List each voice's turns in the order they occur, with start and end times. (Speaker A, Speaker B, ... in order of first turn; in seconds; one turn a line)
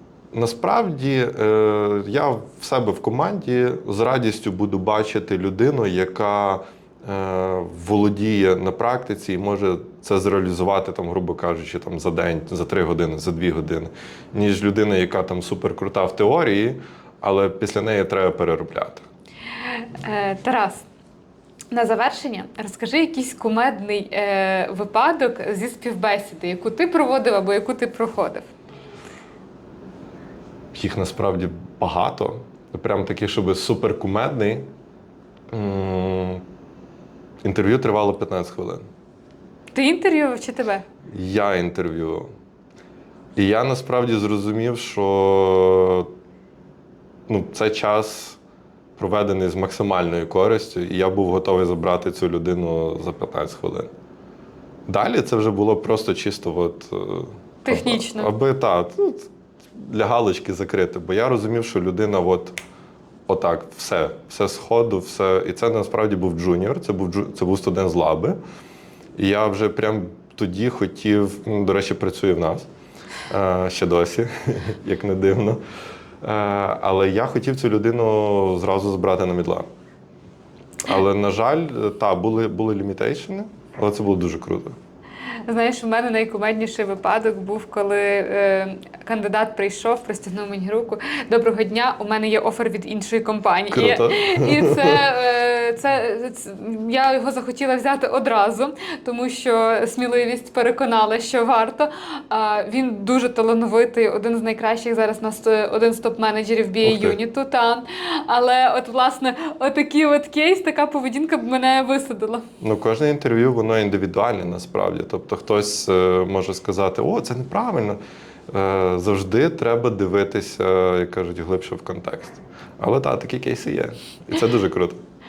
Speaker A: 0.3-19.1
Speaker B: 19.7-20.9
Speaker B: 21.7-28.5
Speaker A: 30.7-34.7
Speaker A: 35.5-36.4
Speaker A: 37.4-38.9
Speaker B: 39.7-40.8
Speaker A: 41.1-42.3
Speaker A: 43.4-46.1
Speaker A: 47.3-48.4
Speaker A: 49.0-53.9
Speaker A: 54.9-62.5
Speaker B: 57.6-58.3
Speaker A: 63.3-68.4
Speaker A: 69.2-72.7
Speaker A: 73.3-75.6
Speaker A: 76.2-79.7
Speaker A: 80.8-84.8
Speaker B: 85.5-112.5
Speaker A: 93.7-95.0
Speaker A: 106.8-107.2
Speaker A: 112.6-118.0
Speaker A: 118.5-125.0